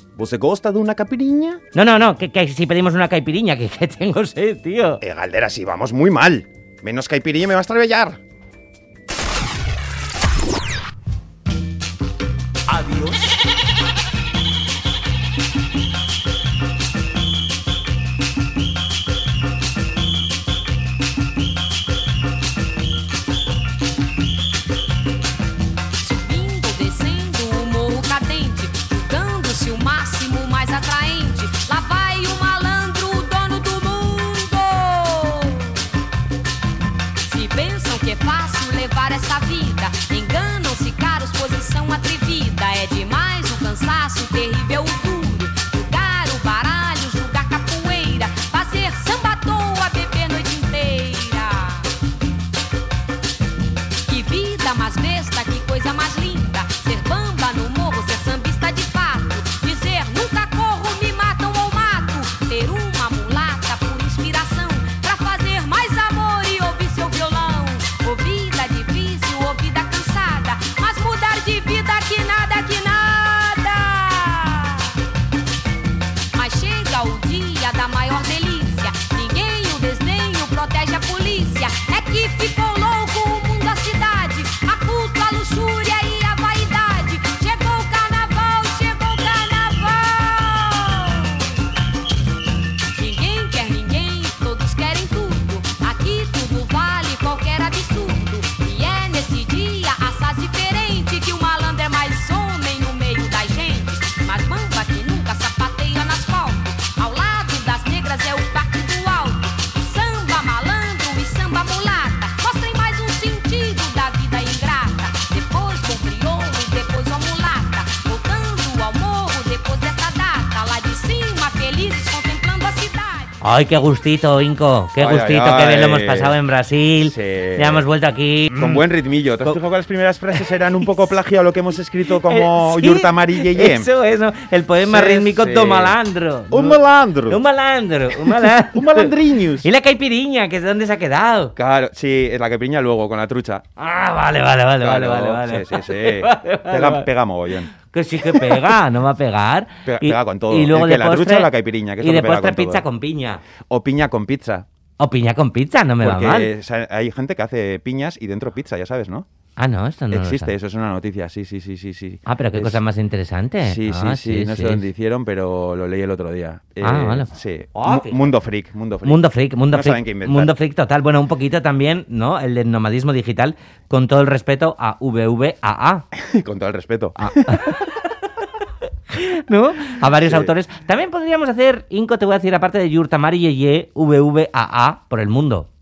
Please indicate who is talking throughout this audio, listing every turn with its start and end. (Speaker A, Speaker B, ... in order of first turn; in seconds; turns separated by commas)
Speaker A: 0.1-1.6, Speaker B: 1.7-5.0, Speaker A: 5.0-8.2, Speaker B: 12.7-13.0, Speaker A: 12.9-13.1, Speaker C: 26.0-35.9, Speaker C: 37.2-51.9, Speaker C: 54.0-75.0, Speaker C: 76.3-91.6, Speaker C: 92.9-123.3, Speaker B: 123.4-128.8, Speaker A: 125.0-126.4, Speaker A: 127.0-127.9, Speaker A: 128.5-133.9, Speaker B: 130.3-131.0, Speaker B: 132.0-141.5, Speaker A: 134.8-136.0, Speaker A: 136.5-137.4, Speaker A: 138.1-139.7, Speaker A: 141.6-143.7, Speaker B: 143.8-147.1, Speaker A: 144.8-148.8, Speaker B: 147.7-153.4, Speaker A: 149.8-152.8, Speaker A: 153.7-154.7, Speaker B: 155.0-156.5, Speaker A: 156.0-159.2, Speaker B: 159.6-160.5, Speaker A: 160.1-162.8, Speaker B: 162.2-164.8, Speaker A: 163.6-170.5, Speaker B: 166.8-168.3, Speaker B: 169.0-176.0, Speaker A: 176.1-177.8, Speaker B: 177.2-185.7, Speaker A: 180.0-180.5